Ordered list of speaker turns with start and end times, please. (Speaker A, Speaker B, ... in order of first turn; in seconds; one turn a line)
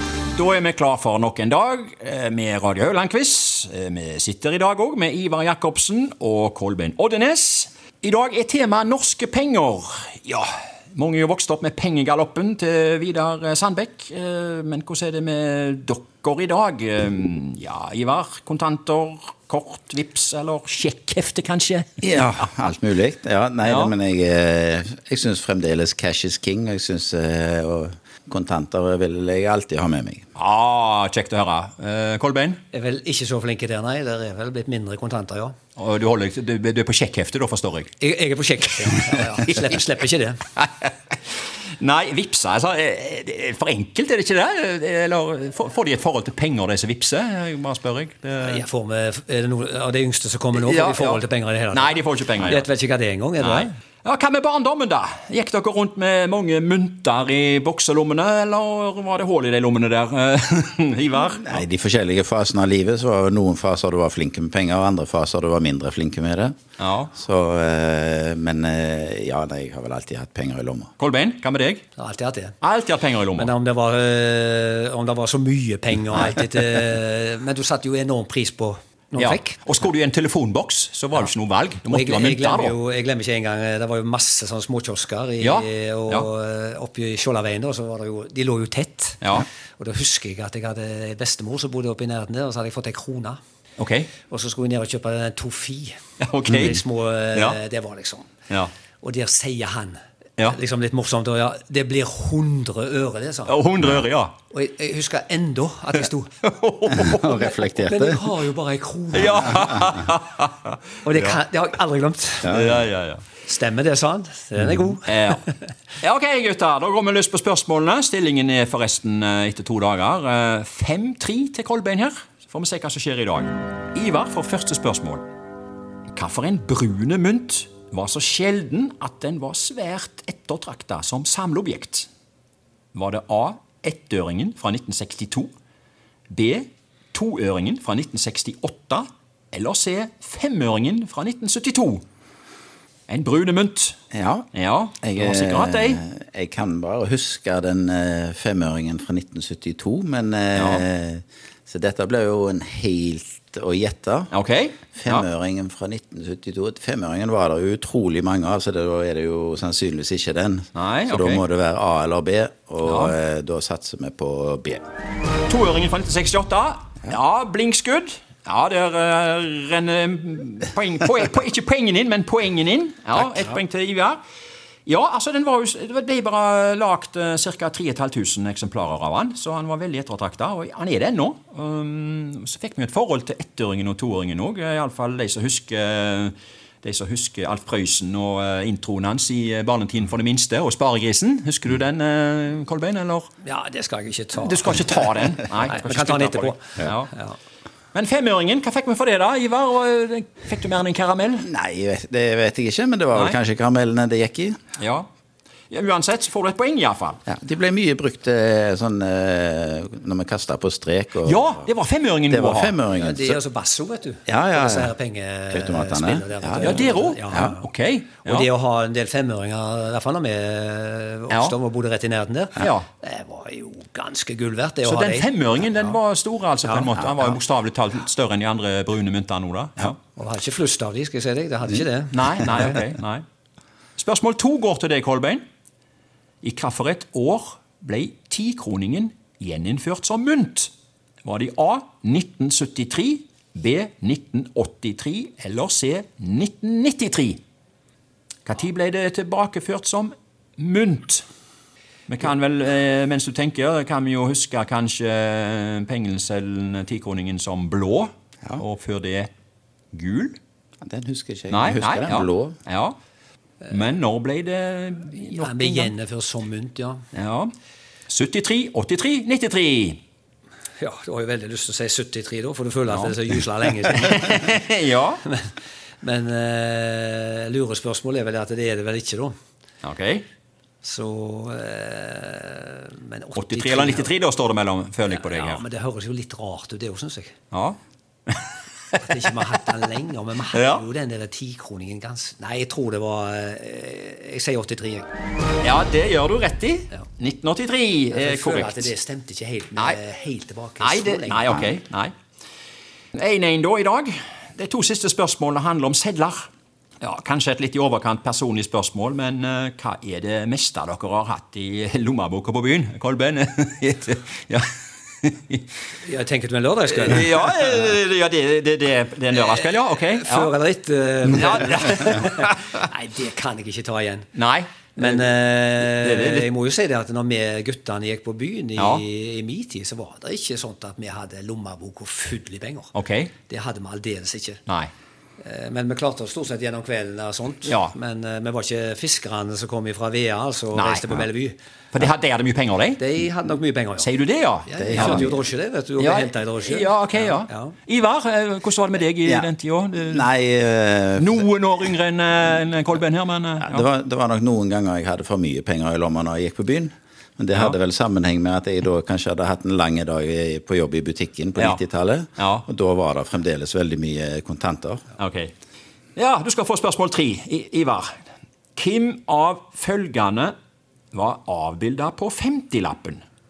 Speaker A: 0.3-22.2
Speaker B: 22.0-30.2
Speaker A: 23.6-23.9
Speaker A: 30.4-32.6
Speaker C: 32.7-35.5
Speaker A: 35.8-37.9
Speaker C: 38.0-40.4
Speaker A: 40.6-40.9
Speaker A: 41.8-48.6
Speaker C: 48.4-53.7
Speaker A: 50.5-52.7
Speaker A: 53.4-61.6
Speaker B: 61.4-66.5
Speaker A: 66.8-67.1
Speaker B: 67.1-70.9
Speaker A: 71.0-71.8
Speaker C: 72.0-72.6
Speaker A: 72.6-73.5
Speaker C: 73.3-79.6
Speaker A: 79.2-82.8
Speaker C: 81.9-93.4
Speaker A: 85.4-86.3
Speaker A: 89.2-89.5
Speaker A: 93.8-94.1
Speaker C: 94.3-98.3
Speaker A: 96.2-96.8
Speaker C: 99.0-103.6
Speaker A: 103.5-104.3
Speaker C: 104.5-106.3
Speaker A: 106.4-107.7
Speaker B: 106.9-108.3
Speaker C: 107.8-110.0
Speaker A: 109.1-111.4
Speaker C: 111.0-112.7
Speaker A: 112.4-113.2
Speaker C: 113.4-115.5
Speaker A: 115.0-115.4
Speaker A: 116.0-125.3
Speaker A: 126.1-132.1
Speaker A: 132.9-135.5
Speaker A: 136.3-142.0
Speaker A: 143.1-144.0
Speaker B: 144.1-144.5
Speaker A: 144.5-146.0
Speaker B: 145.0-154.3
Speaker A: 150.6-150.8
Speaker A: 154.3-155.3
Speaker B: 155.0-164.8
Speaker A: 160.8-161.4
Speaker A: 162.8-163.2
Speaker A: 165.5-174.2
Speaker A: 174.9-193.3
Speaker C: 193.4-197.4
Speaker A: 194.3-197.1
Speaker A: 197.9-201.5
Speaker B: 201.4-204.6
Speaker A: 203.1-203.4
Speaker A: 204.8-205.1
Speaker A: 205.7-207.2
Speaker B: 207.3-211.7
Speaker A: 211.2-212.8
Speaker B: 212.3-213.4
Speaker C: 213.0-217.6
Speaker B: 214.3-214.9
Speaker B: 215.5-217.5
Speaker A: 216.6-218.5
Speaker C: 218.2-225.3
Speaker A: 221.3-221.6
Speaker A: 222.6-222.9
Speaker A: 224.8-230.0
Speaker C: 230.2-232.8
Speaker A: 232.1-233.2
Speaker A: 234.0-235.4
Speaker A: 236.4-240.7
Speaker A: 241.2-247.4
Speaker A: 248.5-251.2
Speaker A: 252.1-259.3
Speaker A: 259.9-260.4
Speaker B: 260.8-262.6
Speaker A: 261.5-263.0
Speaker A: 263.7-265.9
Speaker C: 265.3-267.0
Speaker A: 267.1-267.5
Speaker A: 268.1-270.0
Speaker C: 270.8-274.6
Speaker A: 272.9-273.2
Speaker A: 273.9-275.2
Speaker C: 275.2-279.3
Speaker A: 279.8-280.2
Speaker C: 280.8-284.1
Speaker A: 283.4-285.6
Speaker C: 285.1-287.4
Speaker A: 287.5-287.8
Speaker C: 288.9-295.1
Speaker A: 290.5-290.8
Speaker A: 295.6-298.9
Speaker C: 298.1-301.8
Speaker A: 300.8-302.1
Speaker A: 303.1-306.5
Speaker A: 307.0-314.7
Speaker A: 315.2-315.6
Speaker C: 316.0-317.4
Speaker A: 316.9-320.5
Speaker C: 319.4-324.3
Speaker A: 321.2-322.8
Speaker A: 324.4-326.5
Speaker C: 325.0-332.9
Speaker A: 328.8-329.0
Speaker A: 332.9-333.3
Speaker C: 333.5-334.6
Speaker C: 335.4-341.6
Speaker A: 337.6-337.9
Speaker A: 340.7-341.3
Speaker A: 341.9-343.0
Speaker C: 343.0-344.1
Speaker A: 344.0-345.3
Speaker C: 344.7-347.8
Speaker B: 344.8-345.4
Speaker A: 346.0-350.3
Speaker B: 350.0-351.5
Speaker A: 351.2-353.9
Speaker B: 353.6-365.0
Speaker A: 362.4-362.7
Speaker A: 365.2-365.5
Speaker A: 366.2-368.1
Speaker A: 368.8-370.5
Speaker A: 371.1-373.2